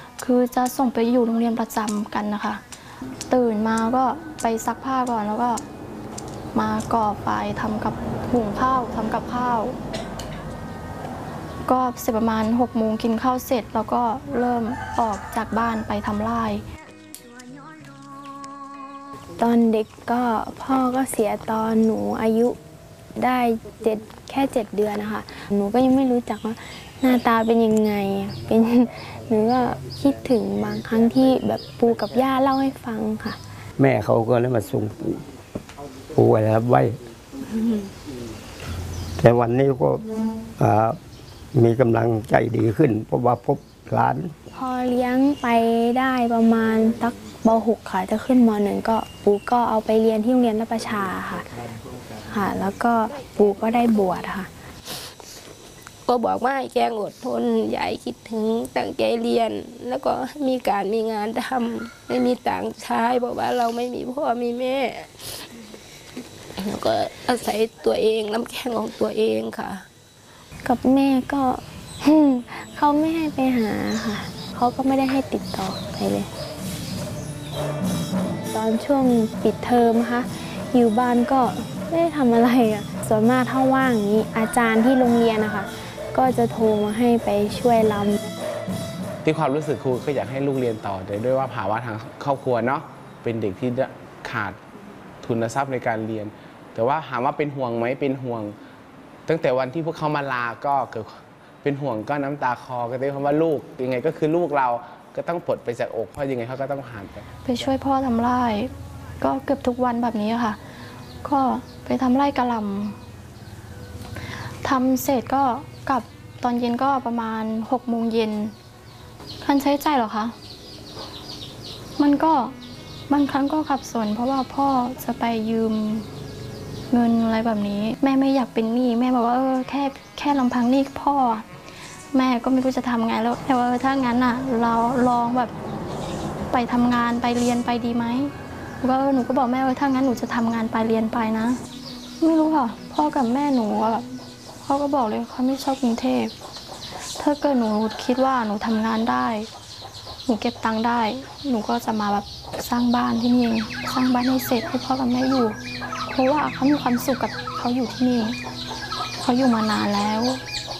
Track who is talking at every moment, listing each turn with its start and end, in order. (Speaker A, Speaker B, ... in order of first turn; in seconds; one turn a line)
Speaker A: 0.2-2.6
Speaker A: 3.3-5.6
Speaker A: 6.5-9.8
Speaker A: 11.6-16.6
Speaker B: 19.4-22.6
Speaker B: 23.1-33.4
Speaker C: 33.8-35.2
Speaker C: 36.1-37.0
Speaker C: 39.2-40.0
Speaker C: 40.6-41.0
Speaker C: 41.5-44.3
Speaker B: 44.5-51.5
Speaker B: 52.2-54.5
Speaker D: 56.0-65.4
Speaker D: 66.6-69.8
Speaker B: 70.6-76.3
Speaker B: 78.5-88.2
Speaker E: 89.2-94.6
Speaker E: 95.2-98.5
Speaker E: 99.3-107.6
Speaker A: 107.4-110.6
Speaker A: 111.2-113.0
Speaker A: 114.6-118.5
Speaker A: 119.4-120.3
Speaker A: 122.0-122.5
Speaker A: 123.1-126.1
Speaker A: 126.9-131.4
Speaker A: 132.1-135.5
Speaker A: 136.5-141.6
Speaker A: 142.2-144.0
Speaker A: 144.6-146.3
Speaker A: 147.2-149.5
Speaker A: 150.2-155.6
Speaker A: 156.1-158.4
Speaker A: 159.2-160.4